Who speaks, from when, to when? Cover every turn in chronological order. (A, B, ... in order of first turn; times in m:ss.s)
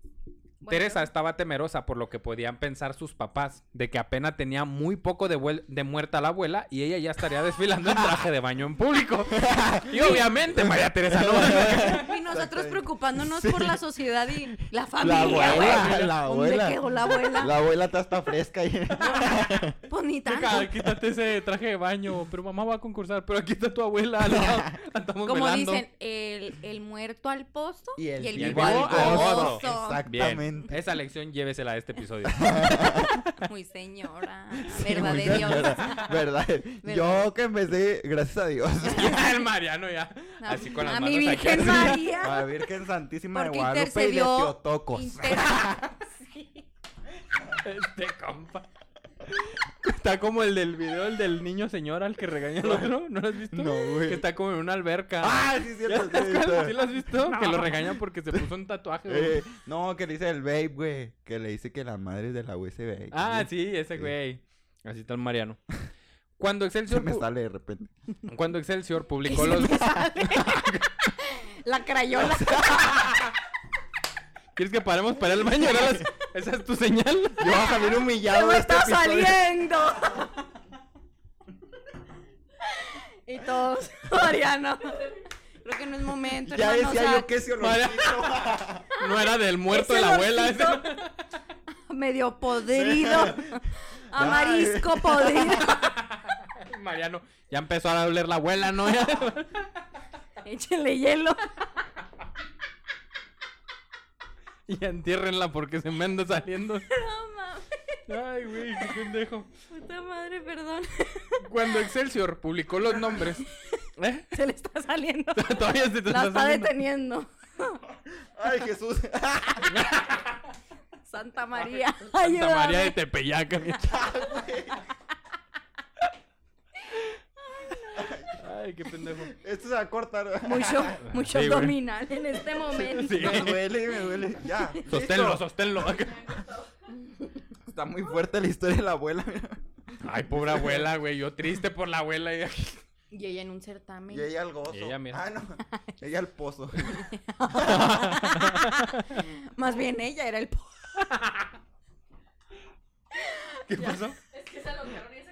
0:00.6-0:01.1 A
0:00.7-0:12.0 B
0:09.3-0:13.8 C
0:11.5-0:17.5 A
0:15.0-0:19.8 C
0:15.3-0:16.1 B
0:19.0-0:20.7 A
0:20.3-0:25.8 B
0:24.2-0:24.8 C
0:25.2-0:30.0 A
0:28.0-0:30.8 C
0:28.3-0:33.4 B
0:32.3-0:33.1 C
0:32.8-0:36.2 A
0:34.6-0:39.3 C
0:36.8-0:37.3 A
0:38.8-0:42.1 B
0:40.4-0:42.6 A
0:41.5-0:45.7 C
0:43.3-0:46.6 A
0:45.5-0:45.7 B
0:47.6-0:48.7 B
0:49.5-0:59.5 B
0:53.5-0:54.2 C
0:55.2-0:56.8 C
0:57.2-0:57.9 A
0:59.1-1:04.1 C
1:03.1-1:05.6 B
1:06.4-1:07.2 B
1:06.9-1:07.9 C
1:08.2-1:10.0 B
1:09.2-1:13.2 A
1:09.8-1:10.3 C
1:10.5-1:10.8 B
1:12.2-1:13.2 C
1:14.6-1:17.6 B
1:15.6-1:16.0 C
1:17.4-1:19.5 C
1:17.5-1:20.5 A
1:22.6-1:27.3 A
1:26.3-1:28.9 C
1:27.6-1:31.1 B
1:28.9-1:31.0 A
1:31.9-1:35.9 A
1:32.7-1:33.6 C
1:34.1-1:35.7 C
1:35.6-1:39.8 B
1:40.4-1:41.8 A
1:44.7-1:46.9 B
1:46.9-1:48.0 A
1:48.1-1:49.5 B
1:49.7-1:51.9 A
1:51.4-1:54.3 B
1:53.0-1:57.8 A
1:55.3-1:56.7 B
1:58.1-1:59.9 C
1:59.6-2:00.3 B
2:01.0-2:03.0 A
2:02.2-2:04.0 B
2:03.9-2:04.8 C
2:07.5-2:08.1 A
2:08.0-2:08.4 C
2:08.4-2:09.3 B
2:09.2-2:11.0 C
2:10.4-2:13.6 A
2:11.0-2:11.8 B
2:12.7-2:15.4 C
2:12.8-2:13.6 B
2:14.9-2:16.5 B
2:16.9-2:17.3 A
2:17.6-2:19.6 C
2:20.0-2:22.8 B
2:23.1-2:24.3 A
2:24.1-2:27.9 C
2:24.7-2:25.2 B
2:26.9-2:31.2 A
2:27.6-2:29.2 B
2:31.0-2:31.5 B
2:33.1-2:34.0 A
2:33.7-2:34.2 C
2:34.6-2:35.0 A